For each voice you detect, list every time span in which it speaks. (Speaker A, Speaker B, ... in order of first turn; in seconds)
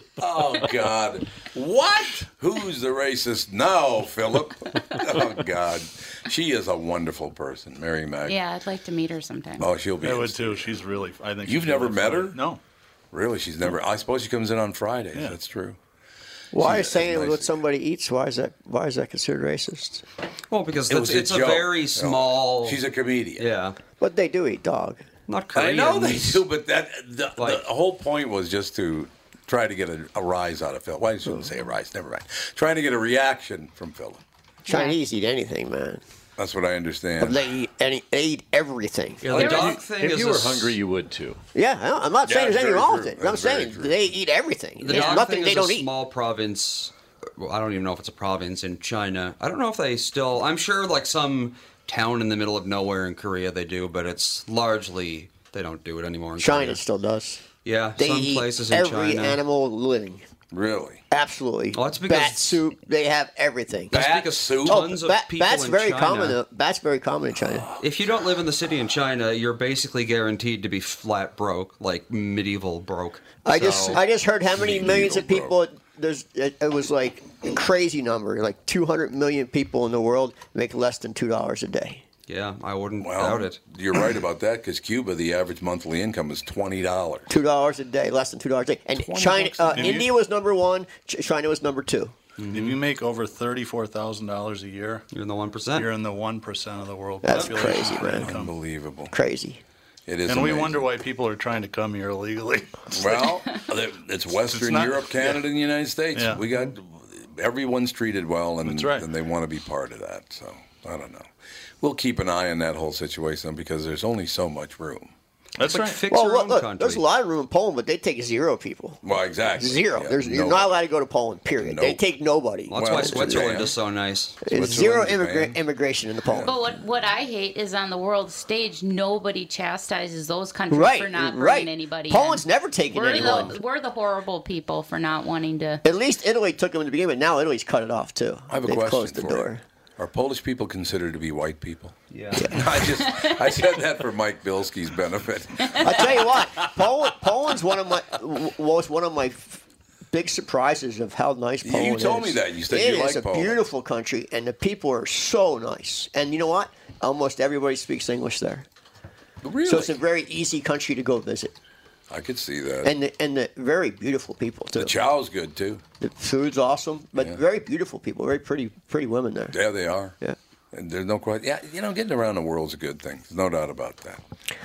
Speaker A: 0.2-8.4, 9.6-10.8, 11.4-12.4, 13.1-15.8, 16.5-17.6, 20.9-23.5, 25.5-34.2, 36.4-37.4, 42.2-44.1, 60.5-61.0, 63.9-65.0, 73.6-74.0, 74.5-75.6, 83.0-87.3, 89.0-90.0, 97.4-99.1, 100.1-100.9, 102.9-115.1, 119.0-120.8, 121.6-122.0, 122.7-123.8, 124.4-125.6, 126.2-126.5, 138.5-146.7, 151.6-153.6, 159.4-160.0, 162.1-162.9, 164.8-165.8, 169.5-170.2, 170.7-174.2
Speaker B: 8.3-9.7, 34.7-35.0, 39.3-39.8, 44.9-45.2, 126.5-135.8
Speaker C: 10.0-12.6, 89.7-90.1, 92.5-95.1, 95.7-98.5, 100.3-103.4, 104.5-105.4, 106.2-106.4, 108.7-109.0, 115.6-116.0
Speaker D: 16.5-20.0, 24.0-25.0, 34.7-36.0, 37.2-39.5, 41.5-45.9, 56.4-57.4, 58.0-60.2, 61.1-64.0, 64.7-67.7, 73.4-82.0, 87.3-92.2, 97.2-98.3, 99.1-99.6, 116.1-123.7, 124.4-126.6, 130.7-133.6, 135.8-139.6, 142.3-142.7, 145.8-158.7, 159.7-161.6, 162.8-165.0, 166.0-169.6
Speaker E: 20.5-22.8, 23.4-23.8, 25.3-26.4, 27.4-27.6, 39.2-40.8, 44.8-56.8, 57.6-59.4, 61.7-62.6, 63.9-66.4, 67.8-74.0, 82.3-83.6, 92.4-92.8, 95.1-95.9, 115.6-117.0, 122.7-124.4
Speaker F: 39.3-41.4